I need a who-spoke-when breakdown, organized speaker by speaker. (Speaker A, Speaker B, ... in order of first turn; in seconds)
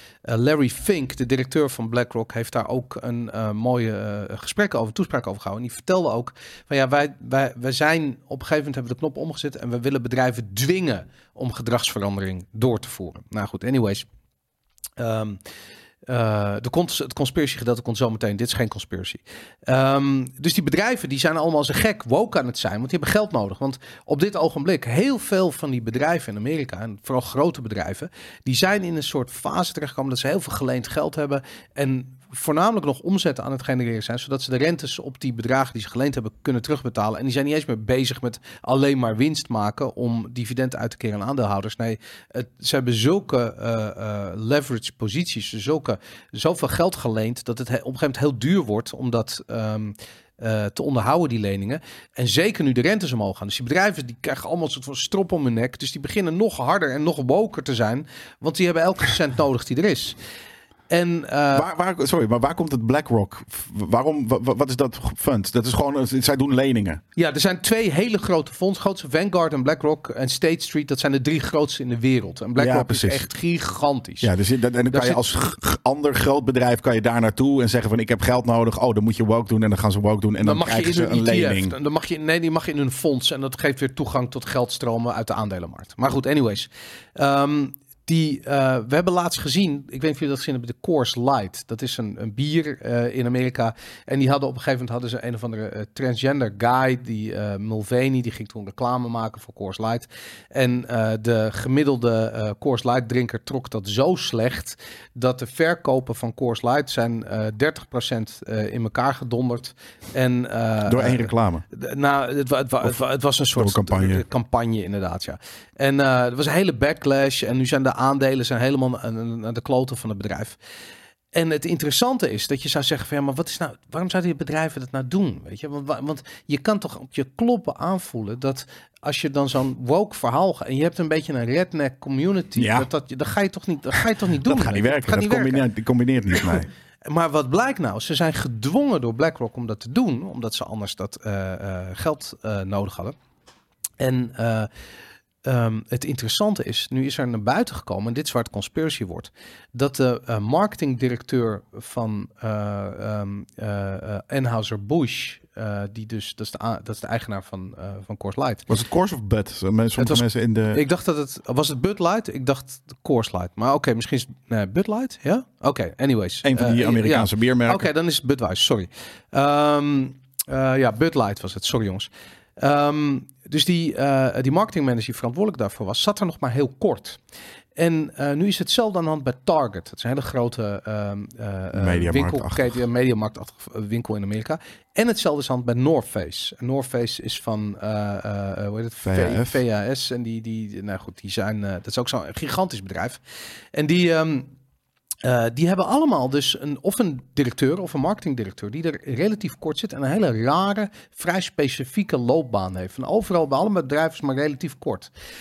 Speaker A: 0.2-14.1, 15.0-15.4, 16.1-60.1, 60.9-61.7, 67.2-74.3, 74.9-75.2, 80.4-120.6, 121.3-135.7, 137.1-143.1, 144.0-144.7, 145.4-158.7, 160.0-177.2, 177.8-193.2, 193.7-194.5, 195.2-205.1
Speaker B: 61.5-67.0, 72.6-73.3, 74.2-81.7, 110.8-111.6, 113.5-114.2, 132.6-132.9, 134.4-136.7, 158.7-160.8, 166.4-167.9, 181.7-182.6, 189.0-189.6